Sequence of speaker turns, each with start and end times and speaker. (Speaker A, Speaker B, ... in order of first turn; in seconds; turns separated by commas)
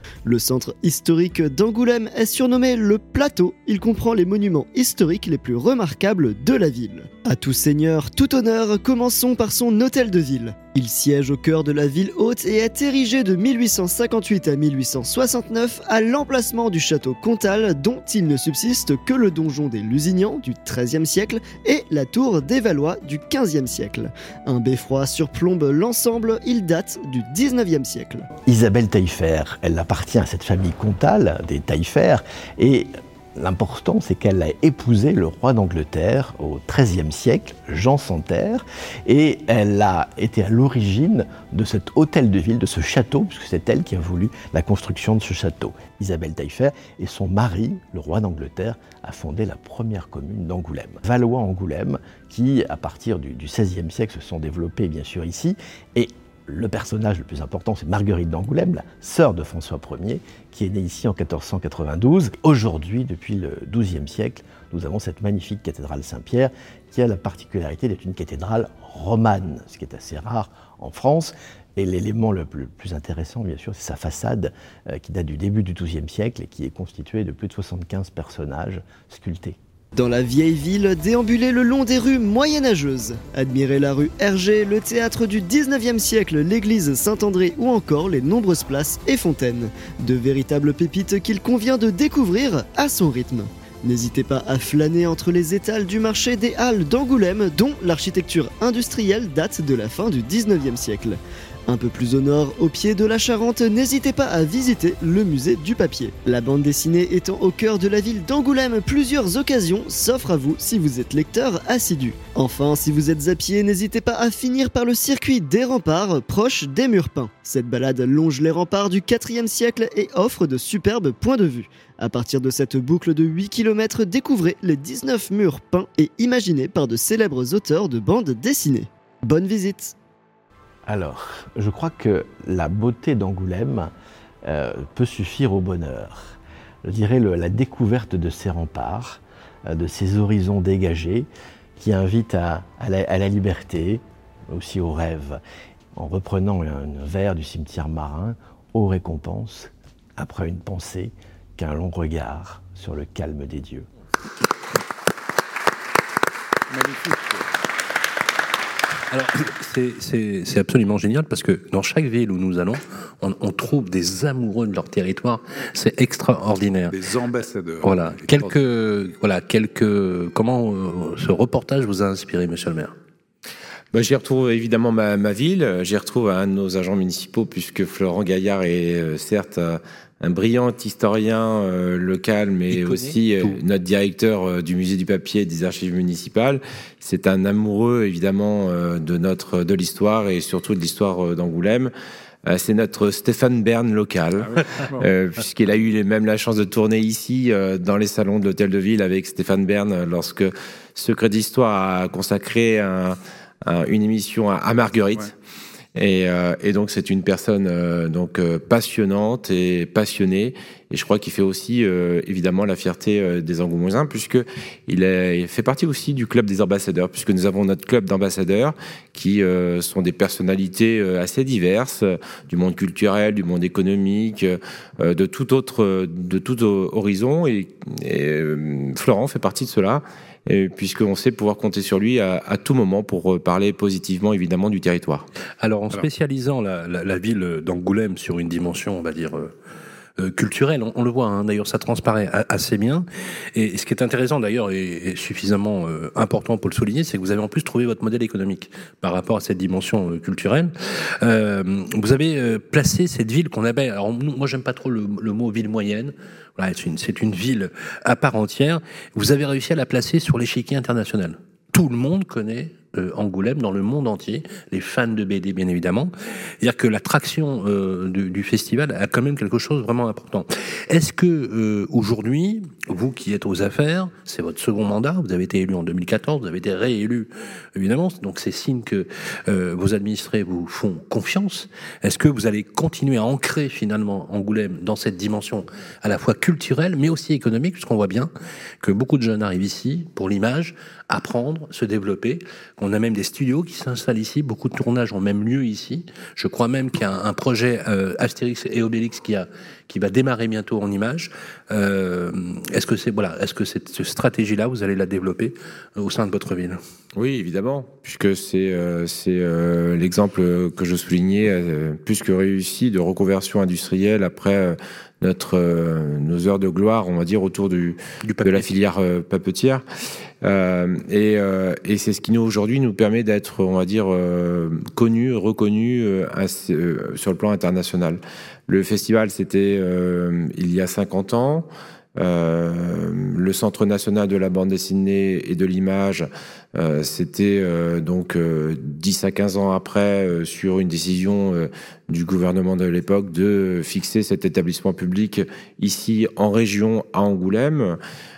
Speaker A: 0.2-28.3, Speaker B: 28.5-79.6, Speaker A: 80.0-129.9, Speaker B: 130.9-133.9, Speaker B: 134.4-145.4, Speaker B: 146.0-153.9, Speaker C: 156.7-157.4, Speaker D: 159.1-167.0, Speaker C: 166.9-168.6, Speaker D: 167.8-172.9, Speaker E: 173.9-191.9, Speaker D: 182.7-183.6, Speaker E: 192.5-205.3, Speaker C: 194.4-195.1, Speaker E: 205.9-235.3, Speaker D: 235.6-239.5, Speaker D: 240.2-306.8, Speaker E: 307.2-319.8, Speaker D: 318.2-318.7, Speaker E: 320.4-348.0